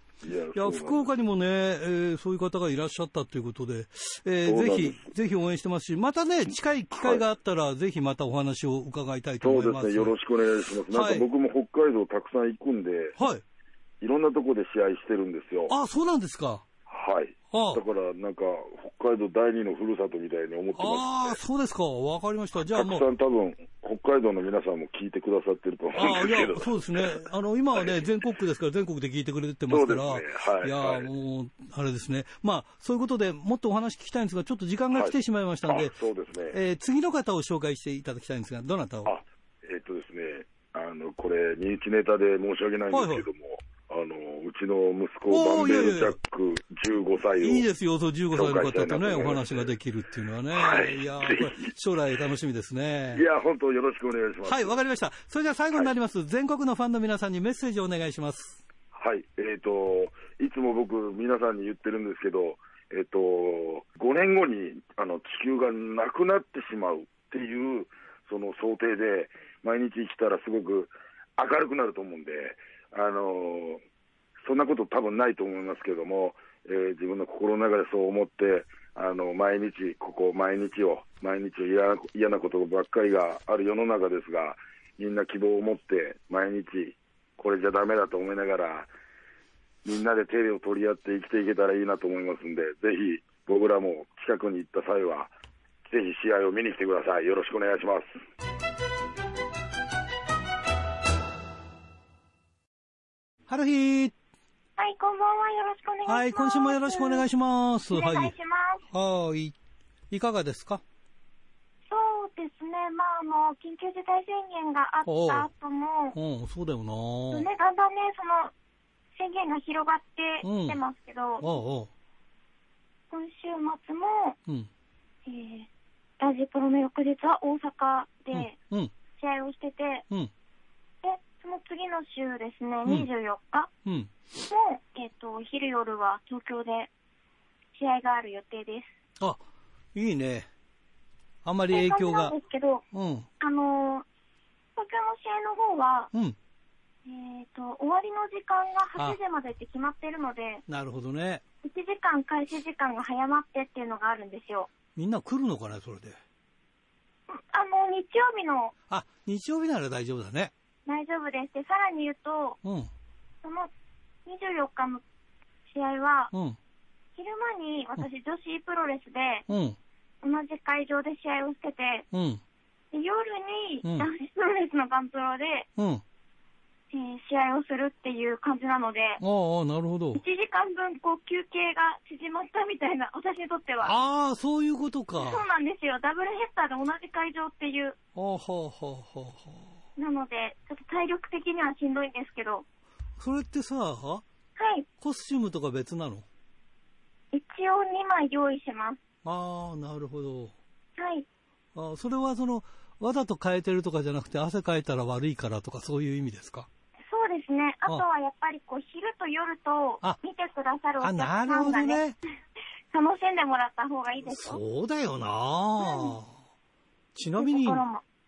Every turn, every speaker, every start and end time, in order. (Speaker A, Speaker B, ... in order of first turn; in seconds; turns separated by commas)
Speaker A: 0.2-1.1, Speaker B: 0.5-10.1, Speaker A: 4.4-5.1, Speaker A: 6.9-7.2, Speaker A: 9.4-13.2, Speaker B: 10.9-11.3, Speaker A: 14.0-15.7, Speaker B: 15.7-16.6, Speaker A: 16.9-21.4, Speaker B: 17.5-17.8, Speaker B: 20.8-23.0, Speaker A: 22.7-27.2, Speaker B: 25.9-35.9, Speaker A: 27.8-28.0, Speaker A: 29.7-31.1, Speaker A: 35.7-36.6, Speaker B: 36.5-39.1, Speaker A: 39.0-47.7, Speaker B: 42.9-43.2, Speaker B: 45.3-46.2, Speaker B: 47.4-53.2, Speaker A: 48.3-49.7, Speaker A: 50.5-51.6, Speaker A: 53.1-54.8, Speaker B: 54.4-58.6, Speaker A: 58.9-73.8, Speaker A: 74.4-88.9, Speaker A: 89.8-95.3, Speaker A: 95.8-98.1, Speaker B: 103.5-104.1, Speaker C: 104.8-107.2, Speaker B: 106.1-108.3, Speaker C: 107.9-108.8, Speaker B: 108.9-109.5, Speaker B: 110.1-110.8, Speaker C: 111.9-116.2, Speaker B: 115.0-115.5, Speaker B: 116.1-117.5, Speaker C: 117.3-118.5, Speaker C: 119.2-121.6, Speaker B: 120.4-120.8, Speaker B: 121.4-121.9, Speaker C: 123.1-124.4, Speaker C: 125.2-125.7, Speaker C: 126.2-128.5, Speaker B: 128.3-128.9, Speaker C: 129.2-130.0, Speaker C: 131.0-133.7, Speaker B: 133.8-134.1, Speaker C: 134.5-136.9, Speaker C: 137.7-139.0, Speaker B: 139.9-140.5, Speaker B: 141.4-142.3, Speaker C: 141.7-142.8, Speaker B: 142.9-143.3, Speaker C: 143.4-144.0, Speaker C: 144.8-146.1, Speaker C: 147.1-150.6, Speaker B: 150.7-151.4, Speaker C: 151.6-154.7, Speaker B: 154.9-156.2, Speaker C: 157.3-158.7, Speaker B: 158.9-160.5, Speaker C: 160.8-162.6, Speaker B: 162.6-162.9, Speaker C: 163.4-163.7, Speaker C: 164.2-165.0, Speaker C: 165.7-166.3, Speaker B: 166.3-166.6, Speaker C: 167.2-169.4, Speaker B: 169.5-169.8, Speaker C: 170.2-172.1, Speaker B: 172.1-172.4, Speaker C: 172.9-175.7, Speaker B: 173.8-174.1, Speaker B: 175.8-176.0, Speaker C: 176.9-179.2, Speaker B: 179.2-180.2, Speaker C: 180.1-183.9, Speaker B: 183.8-185.4, Speaker C: 185.2-187.9, Speaker B: 188.2-189.7, Speaker C: 190.0-192.6, Speaker B: 193.2-194.2, Speaker C: 194.6-194.9, Speaker B: 195.0-196.2, Speaker C: 197.3-199.0, Speaker B: 199.2-200.5, Speaker C: 201.0-201.2, Speaker B: 201.7-206.7, Speaker C: 207.1-212.0, Speaker B: 211.0-212.2, Speaker C: 212.9-214.6, Speaker B: 214.2-216.3, Speaker C: 215.8-216.1, Speaker B: 217.1-217.8, Speaker C: 217.4-218.0